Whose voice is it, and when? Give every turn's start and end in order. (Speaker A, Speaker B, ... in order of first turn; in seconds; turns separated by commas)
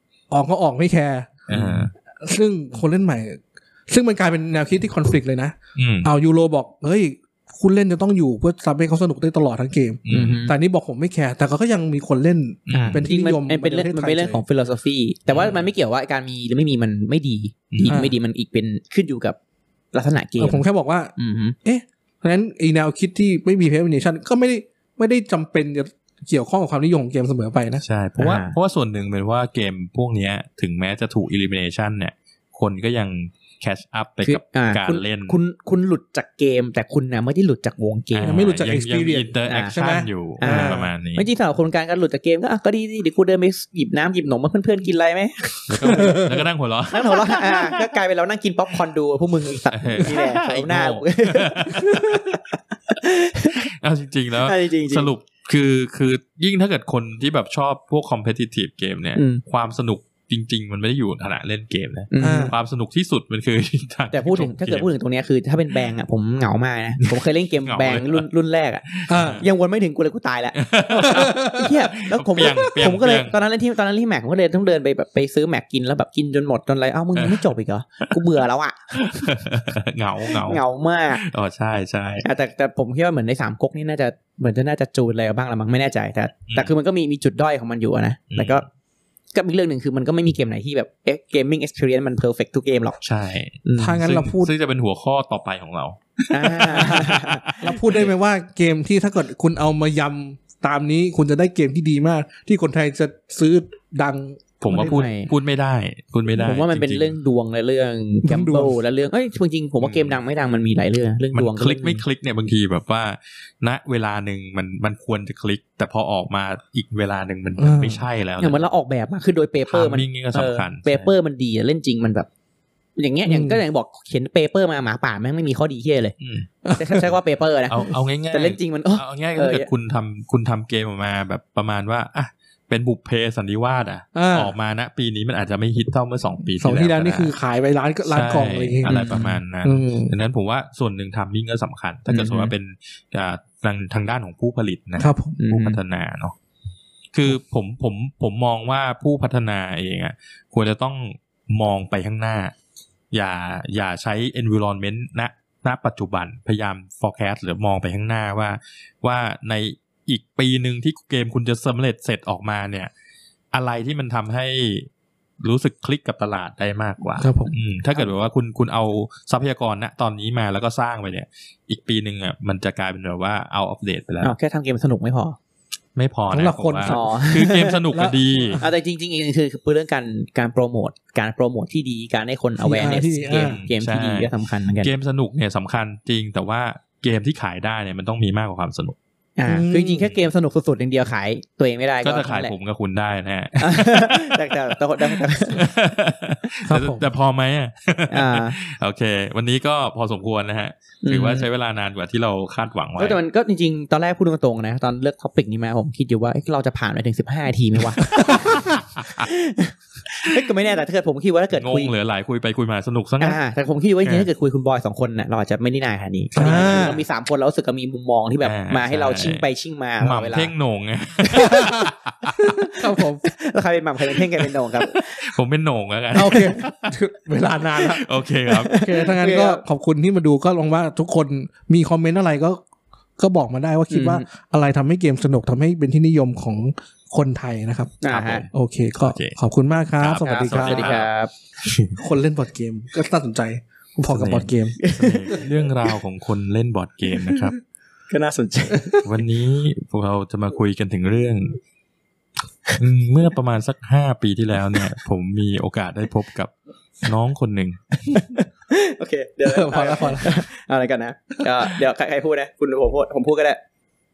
Speaker A: 0.3-14.4, Speaker B: 1.5-1.9, Speaker C: 1.5-1.8, Speaker B: 5.8-6.1, Speaker B: 10.1-10.4, Speaker C: 10.1-10.5, Speaker B: 12.7-13.0, Speaker C: 12.7-19.4, Speaker B: 15.3-15.7, Speaker B: 17.7-18.0, Speaker A: 17.9-18.1, Speaker C: 19.9-20.6, Speaker A: 20.4-21.1, Speaker C: 21.2-21.6, Speaker A: 21.6-27.8, Speaker B: 27.8-35.4, Speaker C: 28.2-28.6, Speaker C: 34.2-38.4, Speaker B: 38.1-41.3, Speaker A: 38.3-40.9, Speaker C: 39.5-39.8, Speaker C: 40.4-46.2, Speaker B: 45.7-47.3, Speaker A: 45.8-46.5, Speaker C: 46.9-53.6, Speaker B: 49.7-52.2, Speaker B: 53.8-64.9, Speaker C: 54.4-55.1, Speaker C: 59.2-59.4, Speaker C: 62.1-62.5, Speaker A: 62.2-62.5, Speaker C: 64.1-79.4, Speaker B: 67.7-68.3, Speaker B: 68.9-69.5, Speaker A: 69.1-69.5, Speaker B: 70.6-73.4, Speaker A: 71.1-71.7, Speaker B: 77.2-77.5, Speaker B: 79.1-80.6, Speaker C: 80.3-81.2, Speaker B: 81.2-82.3, Speaker C: 82.2-88.6, Speaker B: 88.3-88.6, Speaker C: 89.3-93.0, Speaker B: 93.0-98.1, Speaker C: 93.7-94.0, Speaker A: 93.8-94.5, Speaker C: 96.3-97.4, Speaker A: 96.7-104.4, Speaker B: 104.6-107.2, Speaker C: 104.7-105.3, Speaker C: 106.4-112.0, Speaker A: 108.2-108.8, Speaker B: 109.8-110.2, Speaker B: 111.3-118.6, Speaker A: 117.6-118.0, Speaker C: 118.4-122.3, Speaker B: 119.7-121.1, Speaker C: 123.0-126.2, Speaker A: 123.3-123.6, Speaker B: 126.2-126.5, Speaker A: 126.7-127.1, Speaker C: 126.8-129.7, Speaker B: 127.7-137.3, Speaker A: 134.2-134.5, Speaker A: 136.6-140.1, Speaker B: 138.1-146.3, Speaker C: 138.8-139.4, Speaker C: 142.1-142.5, Speaker A: 145.0-145.4, Speaker C: 145.4-145.8, Speaker B: 147.1-152.5, Speaker B: 153.1-162.9, Speaker B: 163.5-164.9, Speaker B: 165.4-174.3, Speaker A: 167.2-167.5, Speaker C: 174.2-175.4, Speaker B: 176.0-178.6, Speaker A: 176.3-178.7, Speaker C: 176.9-177.8, Speaker C: 178.6-184.9, Speaker A: 182.6-183.6, Speaker B: 183.3-189.0, Speaker C: 189.4-192.5, Speaker A: 189.5-190.1, Speaker B: 192.0-203.2, Speaker C: 193.6-195.7, Speaker A: 196.7-197.0, Speaker C: 198.1-198.6, Speaker C: 201.0-201.5, Speaker C: 203.0-211.9, Speaker B: 211.5-213.4, Speaker C: 213.2-220.5, Speaker B: 214.0-214.3, Speaker A: 216.4-217.0, Speaker B: 216.4-216.9, Speaker B: 218.4-219.5, Speaker B: 220.0-222.5, Speaker A: 221.4-221.9, Speaker A: 222.4-223.3, Speaker C: 223.2-225.3, Speaker B: 224.9-227.0, Speaker A: 226.1-228.0, Speaker B: 227.8-228.8, Speaker C: 228.5-229.6, Speaker A: 228.8-232.6, Speaker A: 233.2-238.0, Speaker C: 233.9-234.3, Speaker C: 238.0-238.5, Speaker B: 238.1-239.4, Speaker A: 238.5-241.0, Speaker B: 240.0-241.1, Speaker C: 240.2-241.3, Speaker B: 241.6-242.0, Speaker A: 242.0-244.8, Speaker B: 244.1-247.6, Speaker C: 244.8-245.5, Speaker C: 247.2-247.5, Speaker C: 248.1-249.1, Speaker B: 249.0-251.6, Speaker B: 252.8-257.9, Speaker C: 258.1-263.6, Speaker A: 259.4-260.4